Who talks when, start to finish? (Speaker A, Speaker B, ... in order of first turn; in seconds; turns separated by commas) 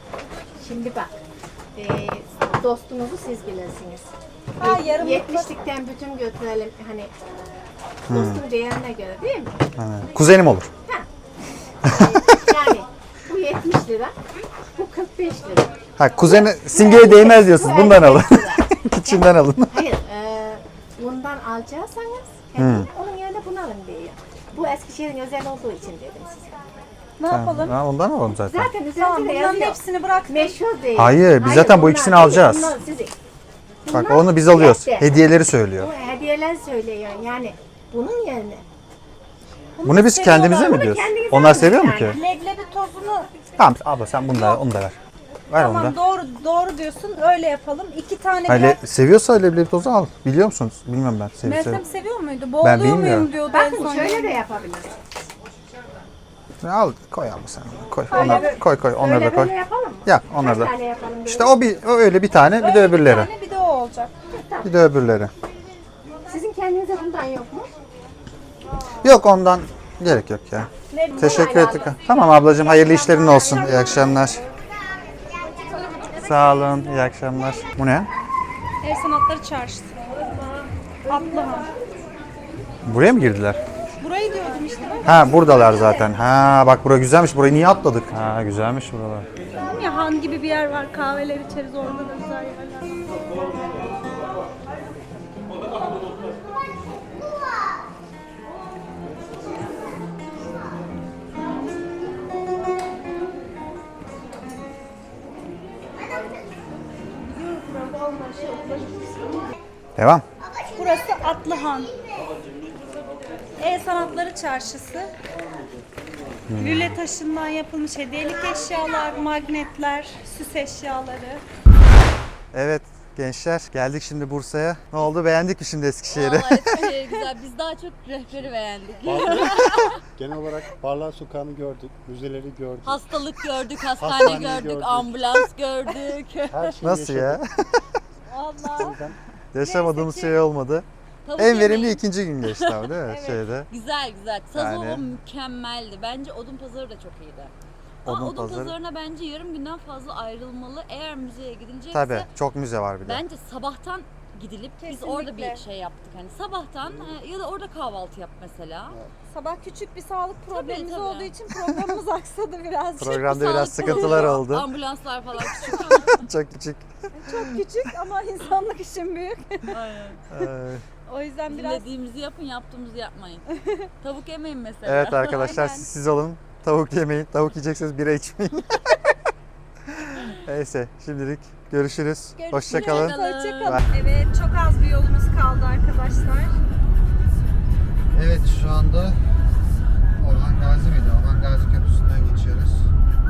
Speaker A: 0.6-1.1, Speaker A: 1.7-7.1, Speaker B: 4.6-5.5, Speaker A: 8.1-9.6, Speaker C: 8.1-8.4, Speaker C: 9.8-10.7, Speaker A: 11.8-14.2, Speaker C: 11.8-12.7, Speaker A: 14.7-15.7, Speaker C: 16.0-19.9, Speaker A: 16.2-26.6, Speaker C: 22.6-22.9, Speaker B: 27.2-27.8, Speaker C: 27.3-28.7, Speaker A: 28.5-33.1, Speaker B: 28.9-30.5, Speaker C: 30.9-32.7, Speaker A: 33.8-35.2, Speaker C: 33.9-35.9, Speaker A: 35.8-38.6, Speaker B: 39.8-40.9, Speaker C: 39.8-42.2, Speaker A: 40.3-42.2, Speaker B: 41.9-43.3, Speaker C: 43.6-45.0, Speaker B: 44.3-44.6, Speaker C: 45.5-46.0, Speaker B: 45.5-48.8, Speaker C: 48.5-51.8, Speaker B: 51.4-54.4, Speaker C: 52.6-53.3, Speaker A: 53.4-55.0, Speaker C: 56.6-59.5, Speaker B: 58.1-58.6, Speaker A: 58.1-61.6, Speaker C: 60.0-60.7, Speaker C: 61.2-63.3, Speaker B: 62.6-64.1, Speaker A: 64.3-64.7, Speaker C: 64.6-65.3, Speaker A: 66.3-67.7, Speaker C: 69.0-74.4, Speaker B: 70.9-71.8, Speaker A: 71.1-74.4, Speaker C: 76.2-78.1, Speaker B: 78.8-80.2, Speaker B: 81.0-81.7, Speaker C: 82.8-83.6, Speaker B: 84.0-86.0, Speaker C: 85.0-89.3, Speaker B: 89.6-93.0, Speaker B: 107.3-109.2, Speaker C: 110.0-110.2, Speaker B: 110.8-111.9, Speaker B: 113.6-115.1, Speaker C: 116.5-117.0, Speaker B: 116.5-121.4, Speaker C: 122.5-126.9, Speaker D: 126.1-130.0, Speaker E: 129.0-133.0, Speaker D: 132.8-136.8, Speaker E: 133.9-135.4, Speaker E: 136.5-137.4, Speaker C: 136.8-137.8, Speaker B: 138.3-139.0, Speaker E: 138.7-139.2, Speaker C: 139.5-140.8, Speaker B: 139.6-140.4, Speaker D: 141.2-142.9, Speaker C: 141.4-143.7, Speaker B: 143.1-143.4, Speaker D: 143.7-147.5, Speaker C: 144.5-145.0, Speaker C: 148.0-148.7, Speaker D: 148.0-152.3, Speaker C: 151.9-153.2, Speaker D: 153.0-159.0, Speaker B: 154.8-155.6, Speaker B: 159.3-163.3, Speaker D: 160.4-161.3, Speaker C: 163.0-164.7, Speaker D: 163.1-166.3, Speaker B: 163.8-164.2, Speaker C: 165.6-167.6, Speaker B: 167.1-169.7, Speaker D: 169.7-170.2, Speaker C: 170.3-170.8, Speaker B: 171.1-171.8, Speaker D: 171.5-175.8, Speaker B: 173.6-173.9, Speaker C: 174.8-179.1, Speaker B: 175.3-175.8, Speaker C: 179.8-183.8, Speaker B: 182.4-186.6, Speaker D: 182.7-183.8, Speaker C: 188.1-189.2, Speaker C: 190.2-192.9